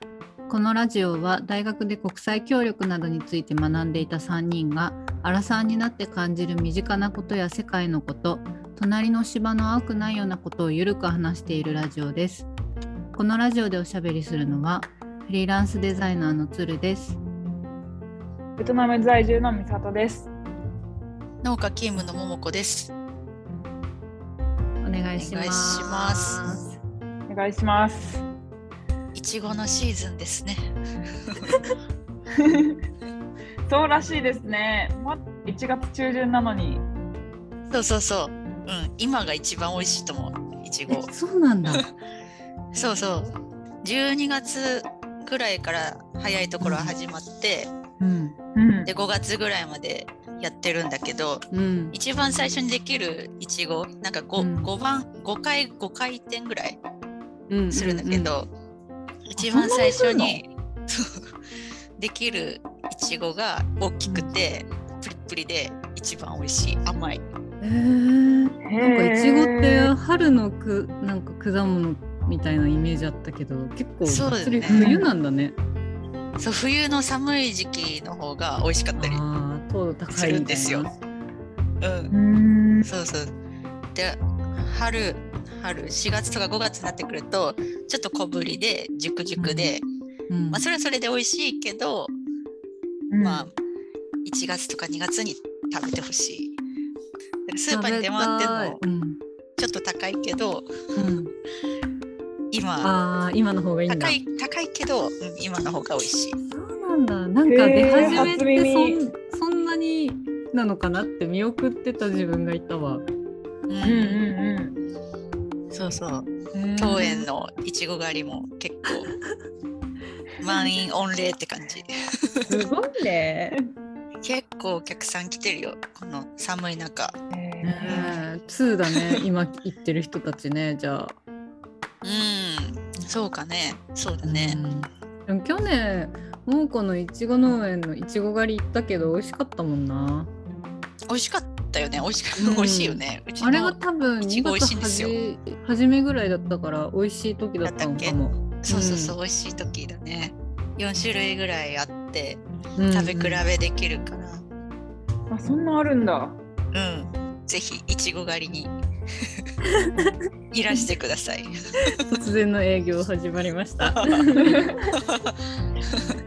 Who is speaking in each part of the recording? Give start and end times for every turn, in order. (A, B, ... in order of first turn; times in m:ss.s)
0:00.5-0:12.5 A
0:13.2-0:17.2 A
0:18.6-0:20.3 B
0:21.4-0:22.9 C
0:24.8-0:26.8 A
0:25.2-0:26.5 C
0:27.3-0:28.2 B
0:29.1-0:31.5 C
0:32.3-0:32.8 B
0:33.7-0:36.8 B
0:37.7-0:41.1 C
0:40.9-0:41.8 A
0:42.7-0:47.7 C
0:46.6-0:46.9 A
0:48.0-0:48.4 A
0:48.5-0:48.9 B
0:48.8-0:56.8 C
0:51.5-0:51.9 A
0:54.4-0:54.7 A
0:57.5-0:58.3 A
0:57.7-0:58.5 C
0:59.3-1:01.3 C
0:59.4-1:00.4 B
1:02.0-1:07.2 C
1:07.6-1:15.5 A
1:08.6-1:09.9 B
1:14.0-1:14.9 C
1:14.7-1:15.1 B
1:16.4-1:19.2 C
1:19.0-1:20.9 A
1:20.1-1:20.9 C
1:21.8-1:22.1 C
1:22.1-1:22.9 B
1:22.8-1:23.3 C
1:23.9-1:29.8 C
1:29.4-1:29.7 A
1:30.3-1:30.6 A
1:30.5-1:32.1 C
1:33.1-1:33.5 B
1:33.2-1:33.5 C
1:34.2-1:36.5 C
1:37.5-1:38.8 C
1:37.7-1:39.2 A
1:39.6-1:40.7 C
1:40.9-1:41.3 A
1:42.5-1:42.9 C
1:42.8-1:44.2 A
1:43.9-1:46.4 C
1:46.4-1:53.0 A
1:47.5-1:49.0 B
1:48.0-1:48.4 C
1:53.7-1:54.2 C
1:53.8-1:54.8 B
1:55.7-1:59.1 C
1:56.6-1:57.2 B
1:56.6-1:56.9 A
2:00.4-2:02.6 C
2:02.5-2:03.6 A
2:04.2-2:07.2 C
2:07.3-2:08.2 B
2:07.6-2:11.2 A
2:07.8-2:08.2 C
2:08.9-2:09.2 C
2:12.0-2:14.6 C
2:14.2-2:20.3 A
2:21.1-2:25.1 C
2:22.4-2:29.1 A
2:27.6-2:34.4 C
2:32.8-2:33.4 A
2:35.3-2:36.4 B
2:36.7-2:39.5 C
2:39.8-2:40.1 A
2:40.5-2:41.9 C
2:42.0-2:44.7 A
2:43.8-2:44.2 C
2:44.4-2:44.8 B
2:45.0-2:45.4 C
2:45.9-2:46.2 C